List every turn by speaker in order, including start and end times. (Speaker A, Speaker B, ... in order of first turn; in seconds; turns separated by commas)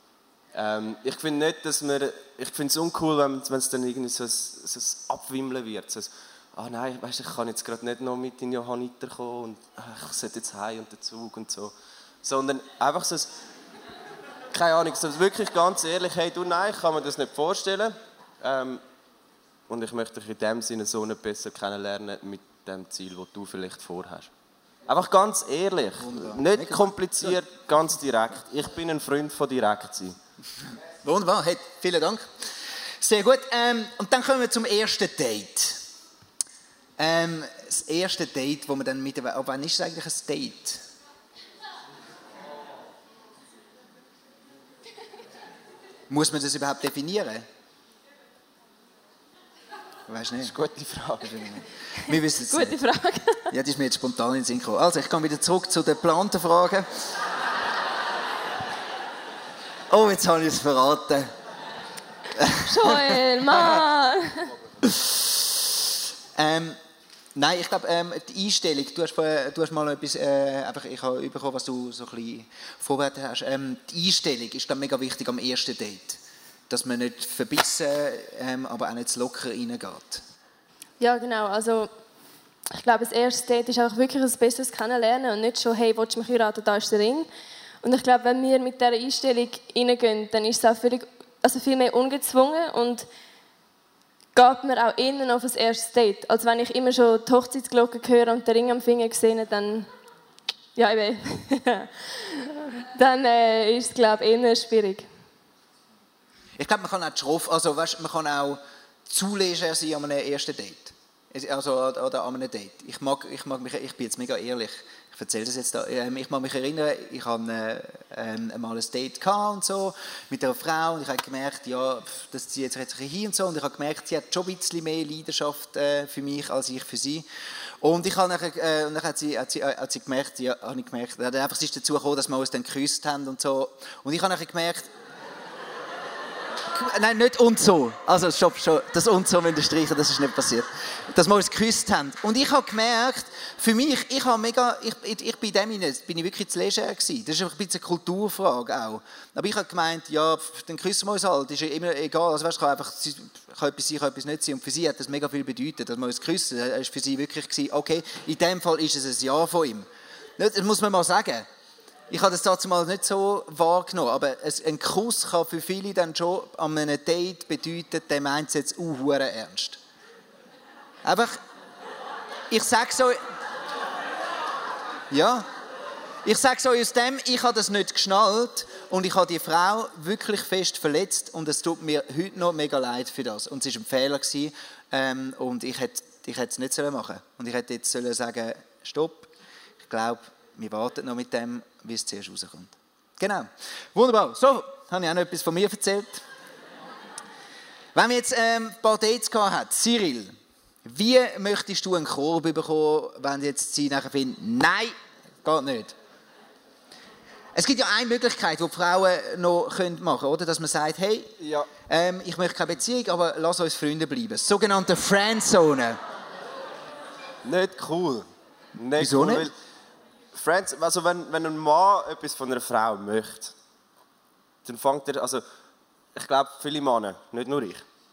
Speaker A: 0.5-11.7, Speaker A: 12.2-13.3, Speaker A: 14.5-18.8, Speaker A: 19.7-24.3, Speaker A: 24.9-30.1, Speaker B: 26.0-27.4, Speaker B: 31.0-32.3, Speaker B: 33.0-35.8, Speaker B: 37.0-40.8, Speaker B: 46.1-47.5, Speaker B: 50.1-50.5, Speaker A: 50.4-51.6, Speaker B: 51.2-52.8, Speaker C: 52.5-53.5, Speaker B: 53.5-56.9, Speaker B: 59.9-61.3, Speaker B: 62.3-63.8, Speaker C: 62.6-64.5, Speaker B: 64.8-65.5, Speaker B: 66.3-66.8, Speaker B: 67.3-80.2, Speaker C: 81.0-81.9, Speaker C: 82.7-87.3, Speaker C: 87.8-93.1, Speaker C: 94.3-99.9, Speaker C: 100.8-105.1, Speaker B: 106.6-127.3, Speaker B: 127.8-134.9, Speaker B: 136.7-161.5, Speaker B: 162.1-169.8, Speaker B: 171.0-171.4, Speaker B: 172.5-173.2, Speaker B: 175.1-175.5, Speaker B: 176.2-189.3, Speaker B: 189.9-196.2, Speaker B: 197.9-205.9, Speaker B: 207.5-211.3, Speaker A: 211.4-211.7, Speaker B: 211.9-216.0, Speaker A: 217.4-219.5, Speaker B: 219.0-219.5, Speaker A: 220.3-223.5, Speaker A: 224.6-225.4, Speaker A: 226.2-227.8